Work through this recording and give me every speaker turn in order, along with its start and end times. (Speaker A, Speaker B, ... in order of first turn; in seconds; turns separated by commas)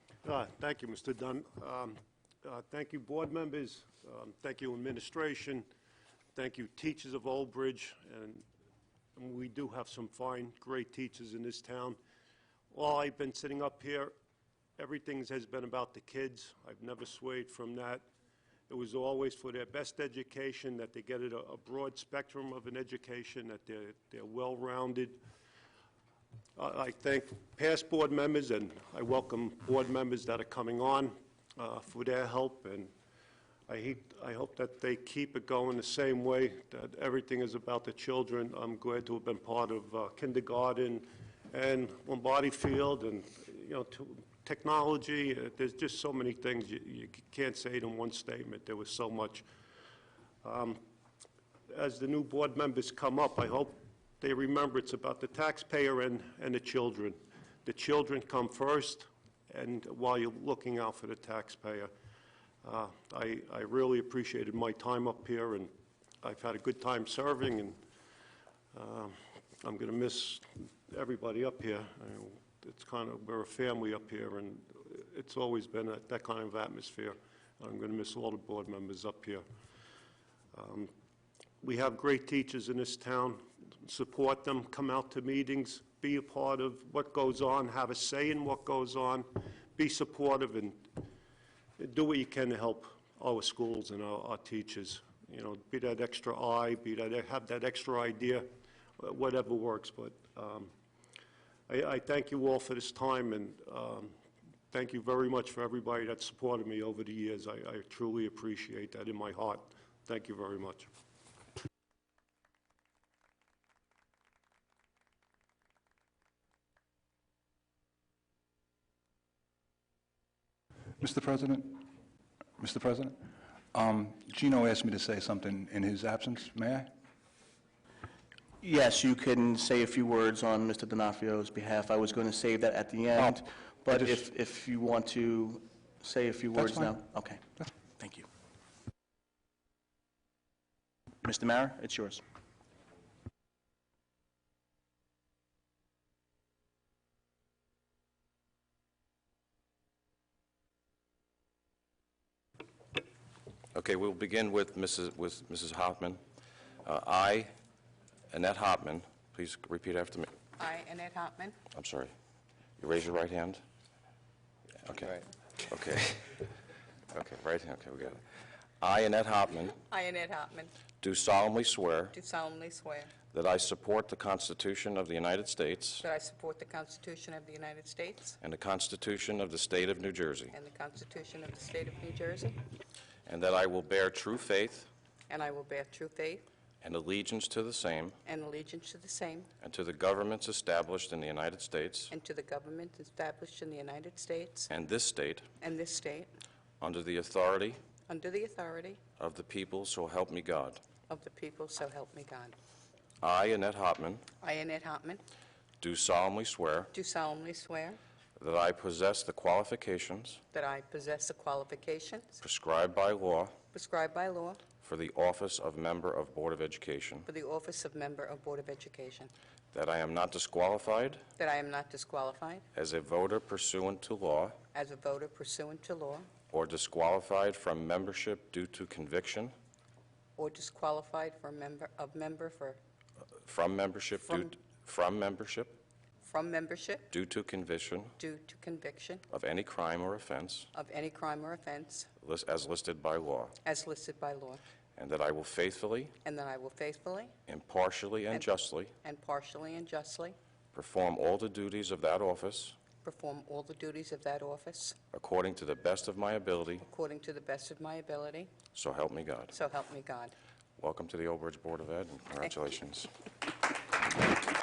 Speaker A: 0.2-5.7, Speaker A: 6.3-8.4, Speaker A: 9.2-12.0, Speaker A: 12.7-14.1, Speaker A: 14.8-18.1, Speaker A: 18.7-25.2, Speaker A: 26.6-32.9, Speaker A: 33.7-49.5, Speaker A: 50.4-50.8, Speaker A: 51.7-61.9, Speaker A: 62.6-67.8, Speaker A: 68.7-79.4, Speaker A: 80.5-80.9, Speaker A: 81.6-90.9, Speaker A: 91.8-98.5, Speaker A: 99.0-100.7, Speaker A: 101.7-104.1, Speaker A: 104.7-110.9, Speaker B: 121.0-121.9, Speaker B: 122.6-126.9, Speaker C: 128.6-137.4, Speaker C: 138.0-138.3, Speaker C: 141.2-142.2, Speaker D: 153.7-156.2, Speaker D: 156.8-157.5, Speaker D: 158.3-160.3, Speaker E: 160.6-161.6, Speaker D: 161.7-162.1, Speaker D: 162.8-163.6, Speaker D: 164.8-166.5, Speaker D: 167.1-168.2, Speaker D: 168.8-169.8, Speaker E: 169.8-170.7, Speaker D: 171.0-172.1, Speaker E: 172.1-173.2, Speaker D: 173.3-176.0, Speaker E: 176.0-178.4, Speaker D: 178.4-180.5, Speaker E: 180.5-182.6, Speaker D: 183.3-184.9, Speaker E: 185.3-186.4, Speaker D: 186.8-188.2, Speaker E: 188.2-189.5, Speaker D: 189.6-192.1, Speaker E: 192.1-194.7, Speaker D: 194.7-195.5, Speaker E: 195.6-196.3, Speaker D: 196.8-197.8, Speaker E: 198.1-199.0, Speaker D: 199.2-200.8, Speaker E: 201.1-202.5, Speaker D: 203.2-204.2, Speaker E: 204.4-205.2, Speaker D: 205.8-206.9, Speaker E: 206.9-208.0, Speaker D: 208.4-210.4, Speaker E: 210.5-212.4, Speaker D: 212.4-213.5, Speaker E: 213.7-214.7, Speaker D: 214.8-217.3, Speaker E: 217.2-219.3, Speaker D: 219.7-221.2, Speaker E: 221.4-222.6, Speaker D: 222.7-224.6, Speaker E: 224.7-226.3, Speaker D: 226.5-229.5, Speaker E: 230.4-232.8, Speaker D: 233.4-235.8, Speaker E: 234.3-234.5, Speaker E: 236.2-237.1, Speaker D: 237.1-238.1, Speaker E: 238.2-239.2, Speaker D: 239.3-240.7, Speaker E: 240.7-242.1, Speaker D: 242.2-243.5, Speaker E: 243.6-244.6, Speaker D: 245.0-246.1, Speaker E: 246.2-247.3, Speaker D: 247.5-248.9, Speaker E: 249.0-250.3, Speaker D: 250.7-252.8, Speaker E: 253.0-255.0, Speaker D: 255.1-256.8, Speaker E: 256.8-258.6, Speaker D: 258.7-259.5, Speaker E: 259.5-260.3, Speaker D: 260.8-263.1